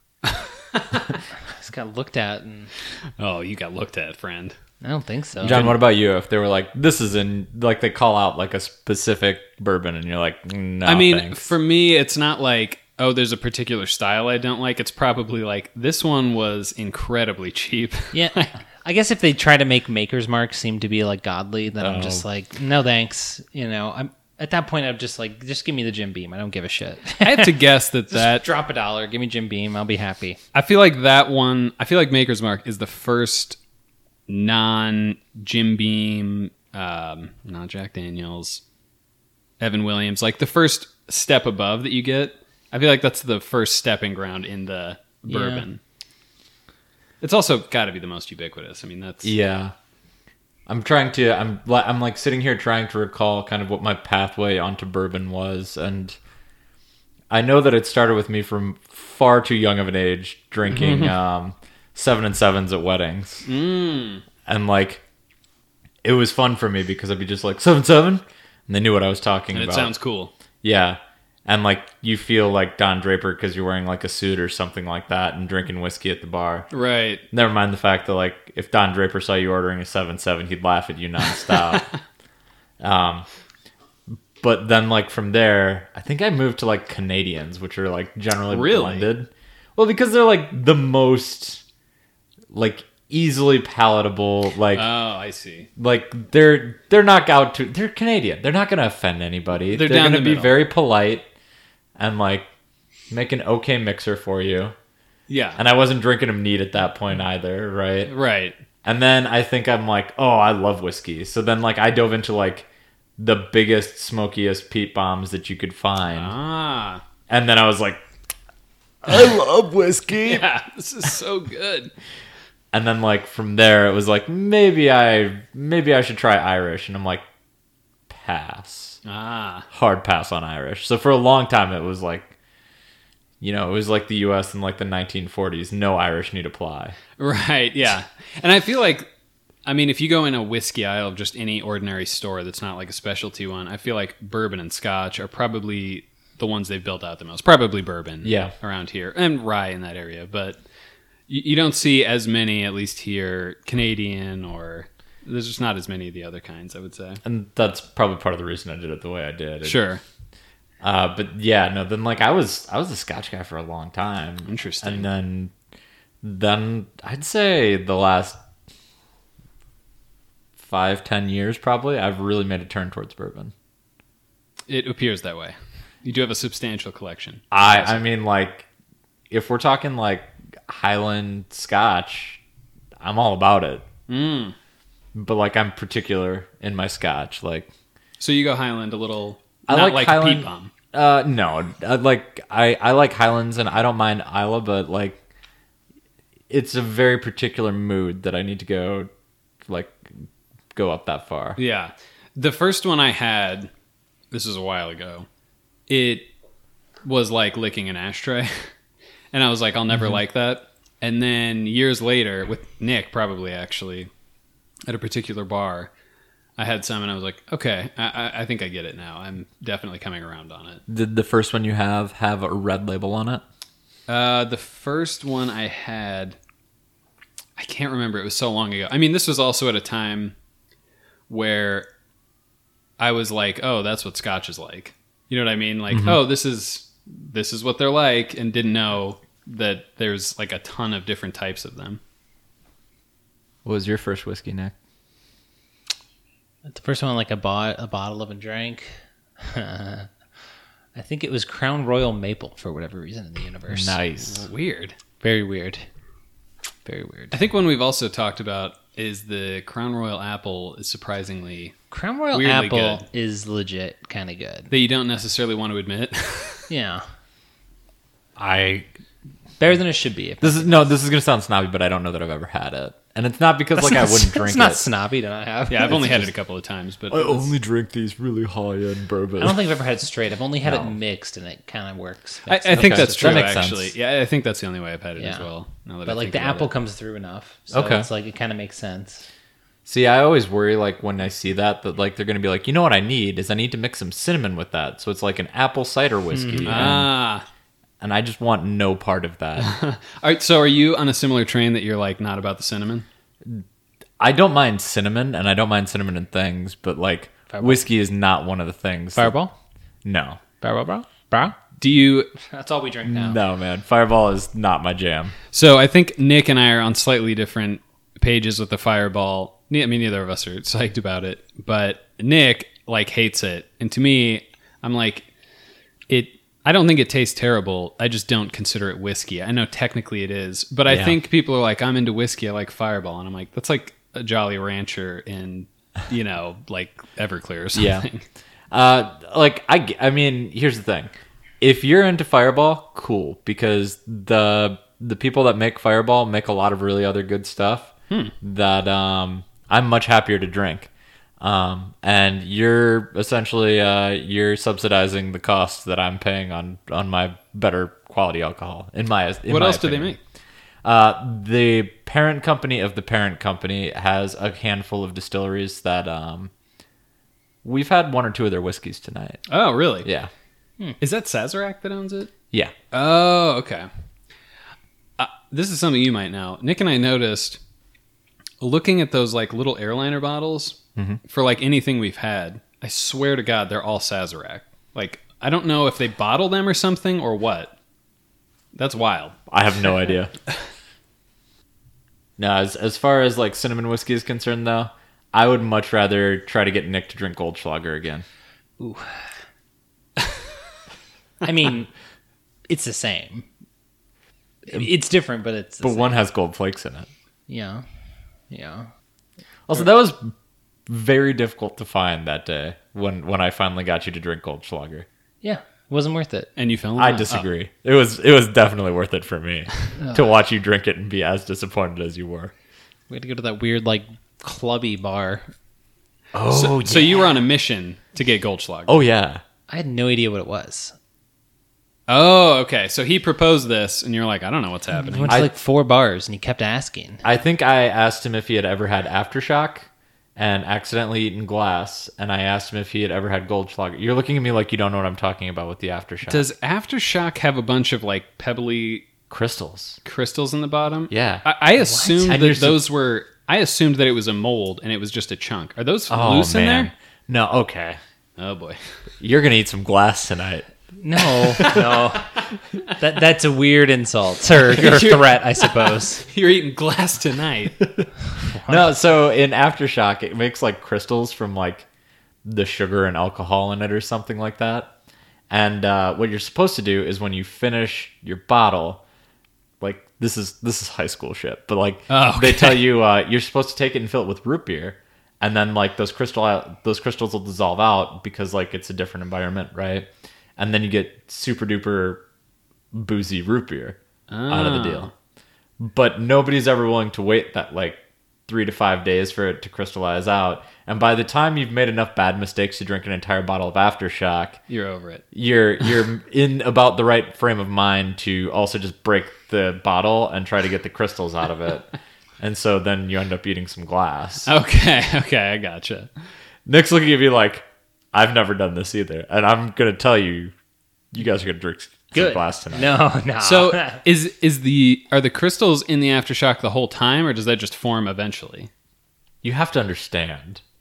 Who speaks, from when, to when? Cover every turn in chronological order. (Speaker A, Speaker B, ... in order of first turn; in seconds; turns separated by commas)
Speaker A: 0.2-1.1, Speaker B: 1.5-2.7, Speaker A: 3.2-4.5, Speaker B: 4.8-5.7, Speaker C: 5.4-11.5, Speaker A: 5.5-5.8, Speaker A: 10.8-18.5, Speaker B: 18.1-27.6, Speaker C: 21.8-22.2, Speaker A: 27.2-28.5, Speaker B: 28.1-30.4, Speaker A: 30.5-33.6, Speaker A: 34.3-38.6, Speaker A: 39.6-45.8, Speaker B: 45.3-45.6, Speaker A: 47.2-49.3, Speaker C: 49.2-49.7, Speaker C: 50.7-56.2, Speaker C: 57.3-63.5, Speaker A: 60.7-61.1, Speaker A: 63.5-64.2, Speaker C: 64.5-65.0, Speaker C: 66.0-69.9, Speaker A: 69.5-70.3, Speaker C: 70.6-76.7, Speaker A: 76.7-77.2, Speaker C: 77.3-81.9, Speaker A: 81.5-81.8, Speaker C: 82.8-83.3, Speaker C: 84.4-91.6, Speaker A: 88.5-89.1, Speaker C: 92.5-94.9, Speaker A: 94.7-95.7, Speaker C: 95.8-101.3, Speaker A: 99.7-100.6, Speaker C: 102.0-102.5, Speaker C: 103.1-104.7, Speaker A: 105.3-105.6, Speaker C: 105.5-108.1, Speaker A: 108.1-108.5, Speaker C: 108.8-116.3, Speaker A: 116.1-117.0, Speaker C: 117.3-118.0, Speaker C: 119.0-120.5, Speaker A: 120.2-121.9, Speaker C: 122.7-127.2, Speaker C: 128.1-129.0, Speaker A: 129.0-129.7, Speaker C: 129.7-132.3, Speaker C: 133.4-137.0, Speaker A: 137.2-139.1, Speaker A: 139.6-150.6, Speaker C: 148.2-148.5, Speaker A: 151.3-157.2, Speaker C: 157.2-159.8, Speaker A: 159.6-160.0, Speaker C: 160.8-165.5, Speaker A: 164.4-165.1, Speaker C: 166.2-168.4, Speaker C: 170.6-173.5, Speaker A: 174.7-178.0, Speaker C: 177.5-178.7, Speaker C: 179.3-182.4, Speaker C: 183.0-183.9, Speaker A: 184.1-184.6, Speaker C: 185.1-187.7, Speaker A: 188.2-190.7, Speaker C: 189.7-195.2, Speaker C: 196.5-199.1, Speaker C: 199.7-201.6, Speaker A: 201.6-203.7, Speaker A: 204.3-205.3, Speaker A: 205.9-206.3, Speaker A: 207.0-208.7, Speaker A: 209.3-214.1, Speaker A: 214.9-215.9, Speaker A: 216.6-220.8, Speaker C: 220.9-223.4, Speaker A: 224.1-226.4, Speaker A: 227.6-230.3, Speaker A: 231.3-231.9, Speaker A: 233.0-242.0, Speaker C: 235.9-236.2, Speaker C: 243.6-244.7, Speaker B: 246.7-250.1, Speaker B: 250.9-254.0, Speaker C: 253.7-254.4, Speaker A: 254.2-255.0, Speaker B: 255.2-255.8, Speaker B: 256.8-257.4, Speaker A: 257.3-261.7, Speaker B: 261.9-264.7, Speaker A: 262.3-263.0, Speaker A: 264.7-266.7, Speaker B: 266.7-267.0, Speaker B: 268.4-268.9, Speaker B: 269.6-270.9, Speaker C: 270.4-274.8, Speaker B: 273.8-276.3, Speaker A: 275.7-277.5, Speaker C: 277.1-279.6, Speaker B: 279.4-283.6, Speaker C: 280.6-280.9, Speaker A: 282.5-286.7, Speaker C: 282.7-283.9, Speaker B: 285.2-285.5, Speaker B: 286.0-289.2, Speaker C: 287.7-288.1, Speaker C: 289.8-297.1, Speaker B: 296.3-296.9, Speaker A: 296.6-297.4, Speaker C: 298.0-299.7, Speaker A: 299.6-303.1, Speaker C: 304.2-309.3, Speaker B: 307.5-307.8, Speaker B: 309.1-309.5, Speaker C: 310.0-310.4, Speaker B: 310.6-311.6, Speaker A: 311.8-312.3, Speaker B: 312.4-313.4, Speaker C: 313.0-315.3, Speaker A: 315.5-325.3, Speaker A: 326.1-338.2, Speaker C: 330.9-331.2, Speaker C: 337.7-338.1, Speaker C: 338.7-360.1, Speaker A: 359.5-360.2, Speaker C: 360.8-366.5, Speaker C: 367.6-369.4, Speaker A: 369.5-370.1, Speaker C: 370.0-370.3, Speaker A: 371.0-372.3, Speaker A: 372.9-373.9, Speaker A: 375.2-377.6, Speaker A: 378.6-387.7, Speaker A: 388.7-389.4, Speaker C: 389.5-390.3, Speaker C: 392.4-398.2, Speaker B: 398.8-399.1, Speaker B: 401.4-401.9, Speaker B: 402.7-403.5, Speaker B: 404.6-406.1, Speaker C: 405.8-407.1, Speaker B: 407.5-407.8, Speaker B: 408.5-408.9, Speaker C: 409.7-410.3, Speaker C: 410.9-415.1, Speaker B: 415.4-416.5, Speaker A: 416.6-417.4, Speaker C: 417.0-422.5, Speaker B: 423.1-425.5, Speaker C: 426.3-427.2, Speaker A: 426.5-428.9, Speaker C: 428.9-429.4, Speaker B: 429.7-430.9, Speaker A: 432.1-435.4, Speaker B: 434.9-437.2, Speaker C: 437.2-446.5, Speaker A: 446.2-449.1, Speaker C: 449.3-450.0, Speaker A: 450.0-456.9, Speaker C: 451.1-451.5, Speaker B: 451.8-452.3, Speaker C: 452.2-452.8, Speaker C: 456.1-458.0, Speaker A: 458.4-458.8, Speaker C: 459.2-462.0, Speaker B: 461.0-462.3, Speaker B: 462.9-466.2, Speaker A: 464.7-467.8, Speaker B: 468.5-468.9, Speaker C: 468.6-471.9, Speaker C: 472.4-474.9, Speaker C: 475.5-479.0, Speaker C: 479.8-492.2, Speaker A: 482.1-482.9, Speaker C: 492.9-495.1, Speaker A: 494.3-495.1, Speaker C: 495.8-504.6, Speaker A: 504.7-505.2, Speaker C: 505.3-514.5, Speaker A: 514.5-516.1, Speaker C: 516.6-520.5, Speaker C: 521.1-523.0, Speaker B: 522.1-524.0, Speaker A: 523.4-528.7, Speaker C: 529.4-530.6